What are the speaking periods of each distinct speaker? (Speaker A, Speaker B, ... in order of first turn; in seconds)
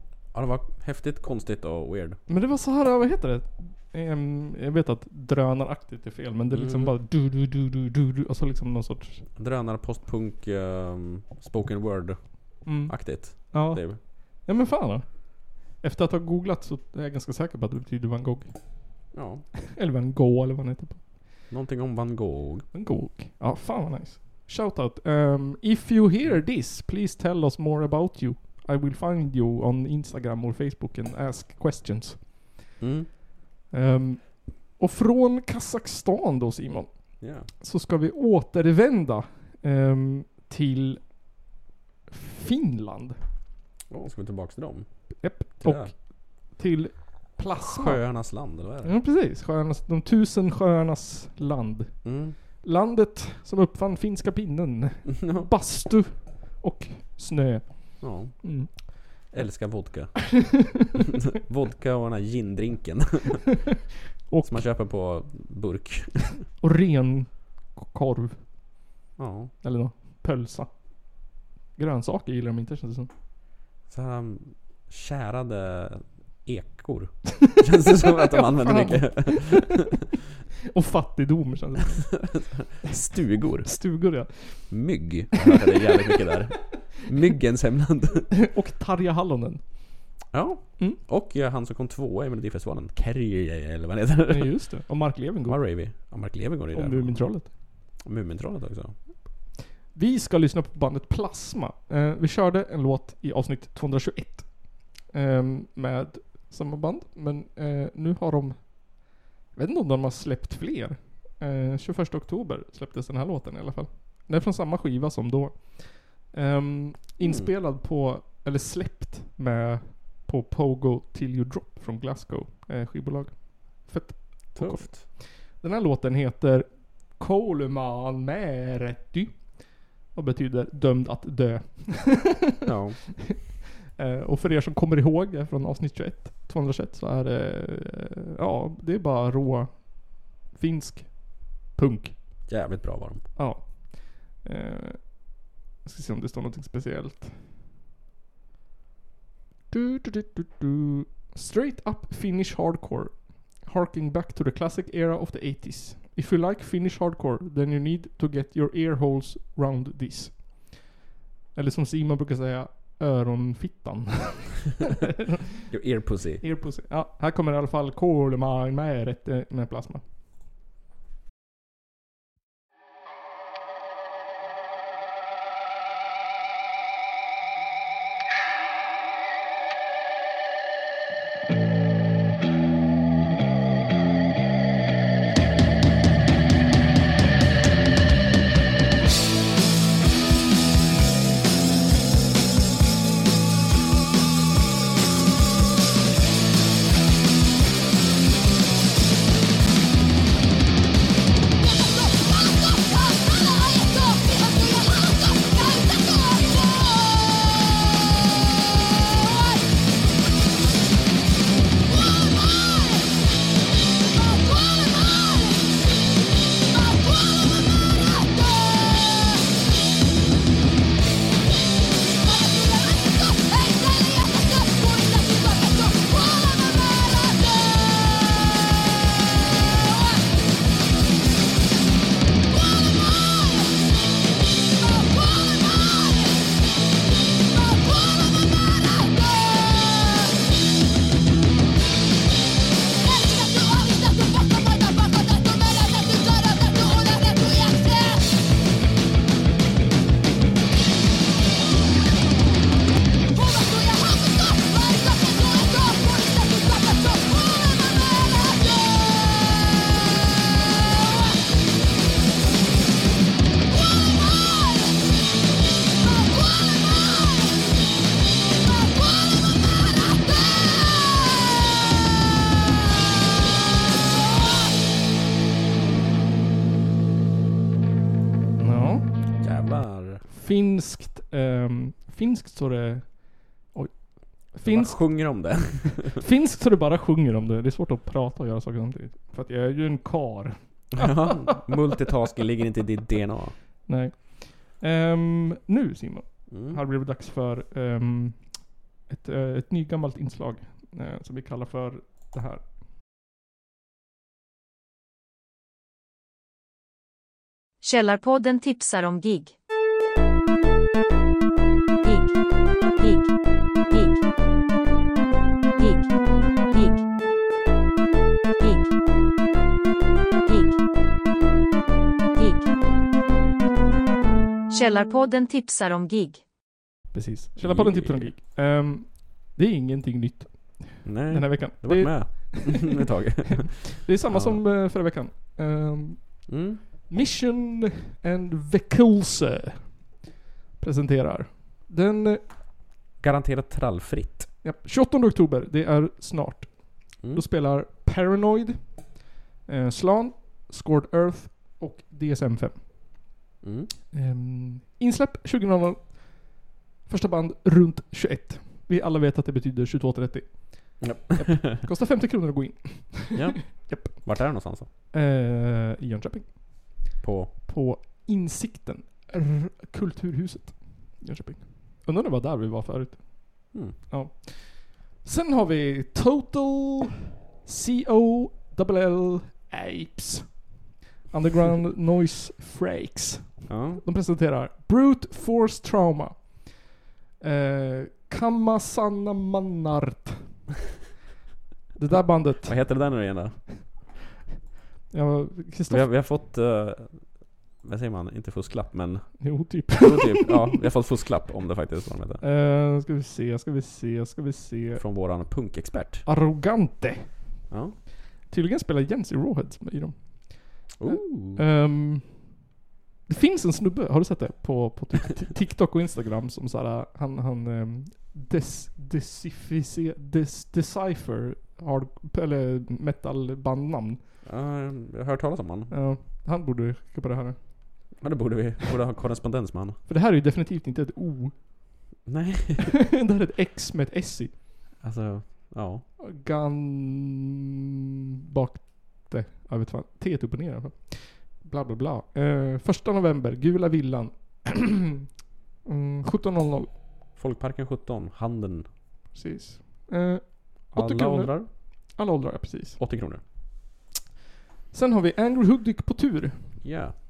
Speaker A: 0.3-2.2, 6.5-6.9, 9.4-14.0, 19.1-19.4, 21.5-22.7, 32.8-33.1, 37.2-37.5, 43.9-44.9, 45.6-45.9, 47.6-48.9, 52.0-52.4, 55.2-55.5, 58.0-60.6, 61.3-63.5, 64.4-66.4, 69.2-69.5, 73.9-79.9, 82.2-83.7, 84.7-88.4, 90.3-94.5, 95.4-97.4, 98.0-98.9, 117.2-117.5, 124.5-125.1, 132.7-133.1, 142.5-143.3, 165.7-166.4, 279.4-280.2, 284.6-286.2, 290.9-293.6, 296.5-296.8, 327.6-328.3, 331.0-334.6, 336.5-336.8, 343.2-344.5, 353.6-353.9, 361.0-361.9, 363.3-364.9, 367.2-367.5, 383.7-384.0, 392.1-393.7, 395.9-402.4, 405.0-406.3, 407.7-408.0, 410.9-411.6, 424.4-425.9, 428.1-430.0, 432.2-432.9, 435.0-436.1, 447.4-448.9, 450.9-451.7, 453.0-453.4, 456.8-457.1
Speaker B: 2.3-9.2, 12.6-18.8, 19.7-21.0, 22.7-32.5, 33.7-41.0, 42.1-43.2, 45.2-52.0, 52.6-59.3, 64.3-64.6, 66.6-68.5, 69.6-70.7, 71.8-73.1, 78.1-79.8, 80.7-82.3, 83.6-84.9, 85.5-86.3, 88.3-89.6, 94.3-95.8, 96.7-97.5, 99.9-132.5, 134.0-142.1, 143.4-147.3, 149.7-160.9, 161.6-165.3, 166.4-170.0, 278.6-279.1, 280.3-291.9, 293.9-302.6, 327.1-340.0, 340.8-342.4, 344.6-349.1, 349.7-353.2, 354.1-364.6, 365.1-380.7, 381.3-386.8, 387.4-390.6, 392.0-393.2, 395.1-396.1, 399.4-400.7, 402.4-405.0, 406.3-407.6, 408.5-412.6, 413.3-424.2, 425.9-428.2, 430.1-432.0, 433.0-434.6, 436.2-437.6, 438.5-445.2, 445.9-446.9, 449.3-453.0, 454.9-456.8
Speaker C: 307.8-309.5, 312.0-312.4, 312.9-313.3, 313.8-314.2, 315.8-316.1, 316.7-317.1, 318.6-318.9, 320.4-320.8, 322.4-322.7, 324.7-326.4